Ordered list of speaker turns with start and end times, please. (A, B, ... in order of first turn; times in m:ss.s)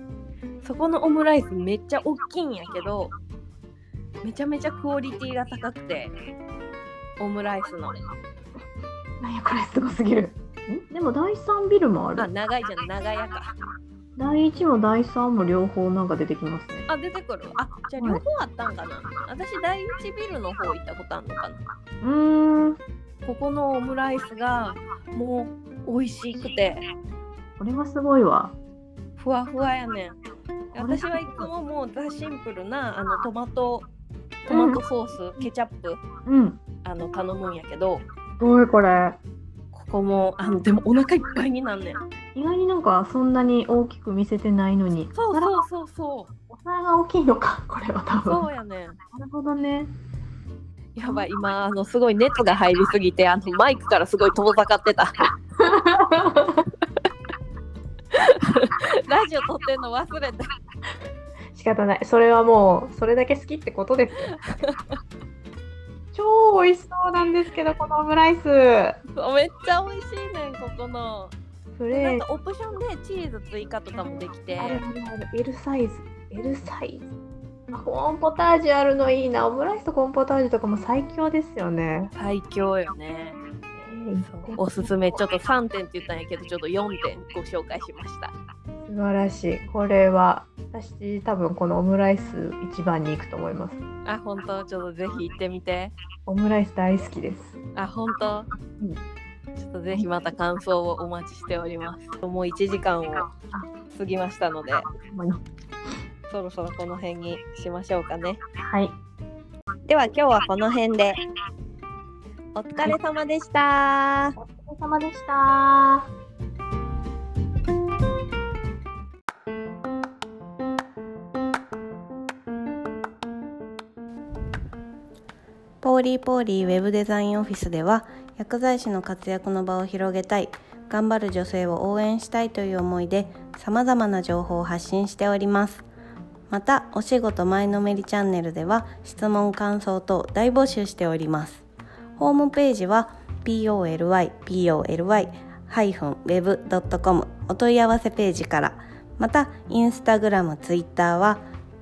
0:00.6-0:03.1 A
0:04.2-0:06.1 A
0:07.2-0:08.0 A
0:09.2-0:12.3 B
0:12.2-0:13.5 A
0:14.2-0:16.9 B
0:16.9-0:21.6 A
0:18.0-0:18.2 B
0:22.0-0:22.8 B
0:23.2-0:26.8 A
0:27.6-0:28.5 B
0:29.2-0:30.2 A
0:30.7-0:33.9 A
0:30.8-0:31.5 B
0:34.5-0:36.0 A
0:34.5-0:34.8 B
0:36.2-0:36.6 B
0:36.8-0:38.0 A
0:38.4-0:39.2 B
0:39.7-0:42.0 A
0:42.3-0:45.6 B
0:45.1-0:46.3 A
0:46.5-0:48.4 B
0:48.2-0:49.0 A
0:49.1-0:49.9 B
0:50.9-0:55.1 A
0:55.6-0:56.7 B
0:58.1-1:00.5 A
1:01.5-1:04.2 B
1:04.6-1:05.0 A
1:06.1-1:09.0 B
1:09.1-1:11.3 A
1:11.8-1:12.2 B
1:11.9-1:14.8 A
1:14.6-1:17.1 B
1:17.7-1:22.1 B
1:22.1-1:23.4 A
1:23.8-1:25.2 B
1:24.2-1:28.3 A
1:28.8-1:33.8 B
1:34.0-1:35.9 A
1:36.3-1:37.6 B
1:37.8-1:38.5 A
1:39.6-1:43.3 A
1:43.9-1:44.9 A
1:45.0-1:45.4 B
1:46.3-1:48.4 A
1:48.7-1:49.0 B
1:49.9-1:51.2 A
1:52.5-1:54.4 A
1:54.4-1:56.1 B
2:05.8-2:15.8 C
2:16.5-2:21.6 C
2:22.2-2:31.4 C